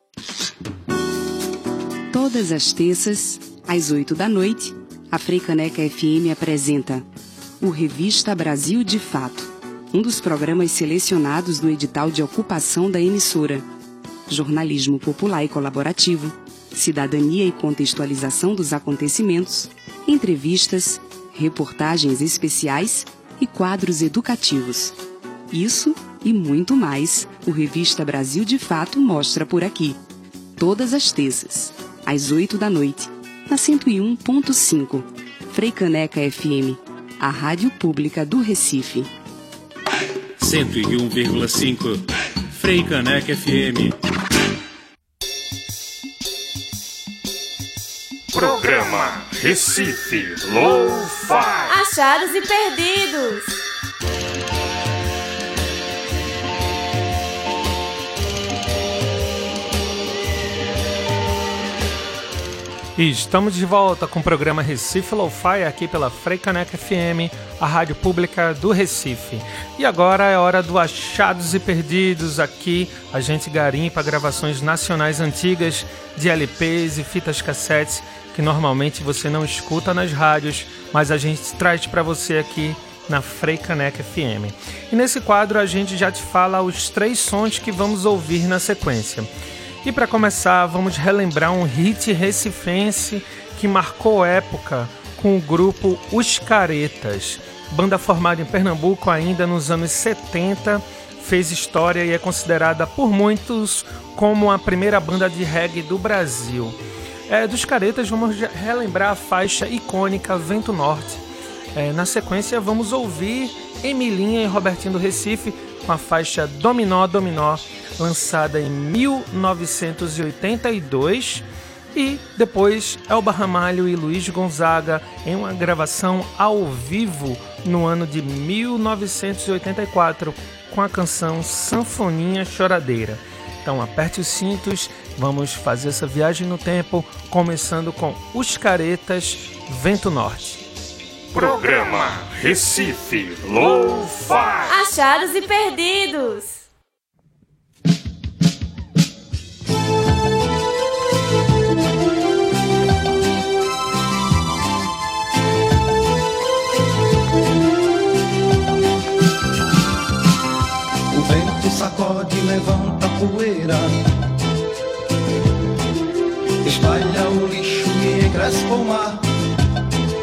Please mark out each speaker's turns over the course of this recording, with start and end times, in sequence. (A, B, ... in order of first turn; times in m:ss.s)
0:02.1-0:07.0 A
0:07.6-0:13.6 A
0:14.3-0:25.0 A
0:25.5-0:30.0 A
0:30.6-0:39.1 A
0:40.4-0:44.0 B
0:48.3-0:51.8 C
0:51.7-0:53.6 D
1:03.0-1:29.3 E
1:29.8-1:46.8 E
1:47.3-1:51.2 E
1:51.7-2:20.6 E
2:21.3-2:24.8 C
2:24.7-2:26.6 D
2:41.1-2:44.0 F
2:46.6-2:49.2 F